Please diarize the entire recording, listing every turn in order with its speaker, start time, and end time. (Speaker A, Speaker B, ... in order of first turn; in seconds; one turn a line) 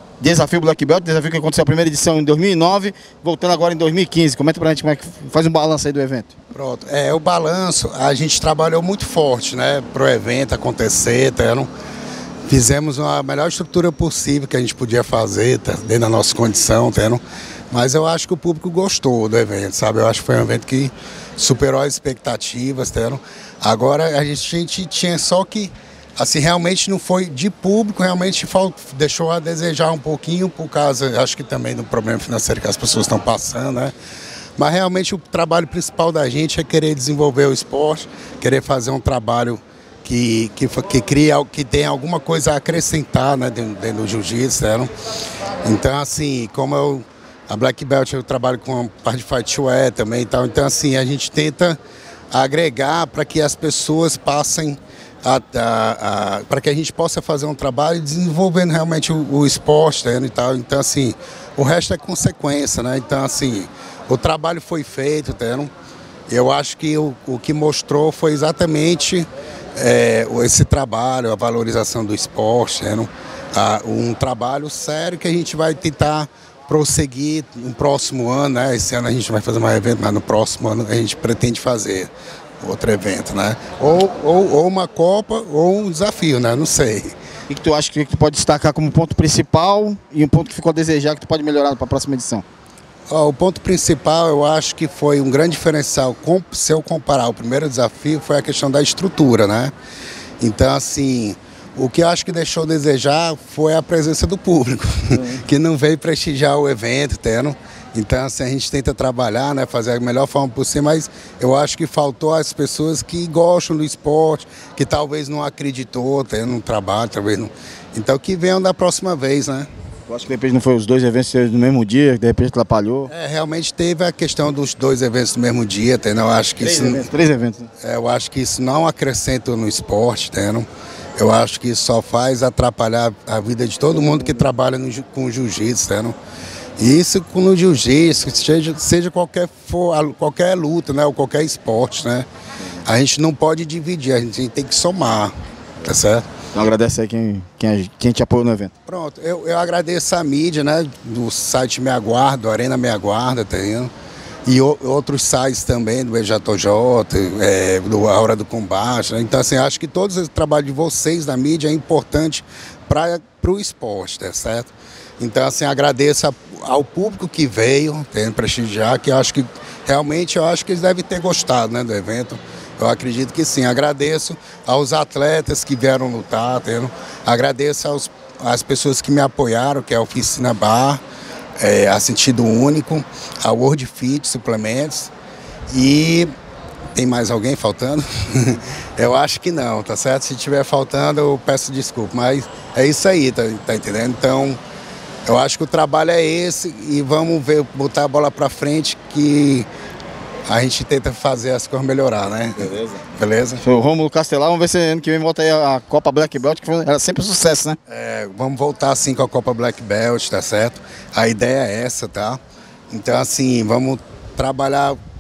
Speaker A: 0.2-6.3
Speaker B: 6.5-11.7
Speaker B: 12.5-33.9
Speaker B: 34.6-44.9
Speaker B: 45.6-51.8
Speaker B: 52.3-65.7
Speaker B: 66.3-87.1
Speaker A: 87.5-92.4
Speaker B: 93.1-99.7
Speaker B: 100.4-119.7
Speaker A: 120.1-123.1
Speaker B: 123.1-127.1
Speaker A: 126.6-127.7
Speaker B: 127.8-136.2
Speaker B: 136.8-146.2
Speaker A: 146.5-148.7
Speaker B: 148.9-153.9
Speaker B: 154.4-181.0
Speaker B: 181.6-185.1
Speaker B: 185.7-186.3
Speaker B: 186.9-194.6
Speaker B: 195.2-199.7
Speaker B: 200.5-203.6
Speaker A: 203.6-207.8
Speaker B: 207.9-215.0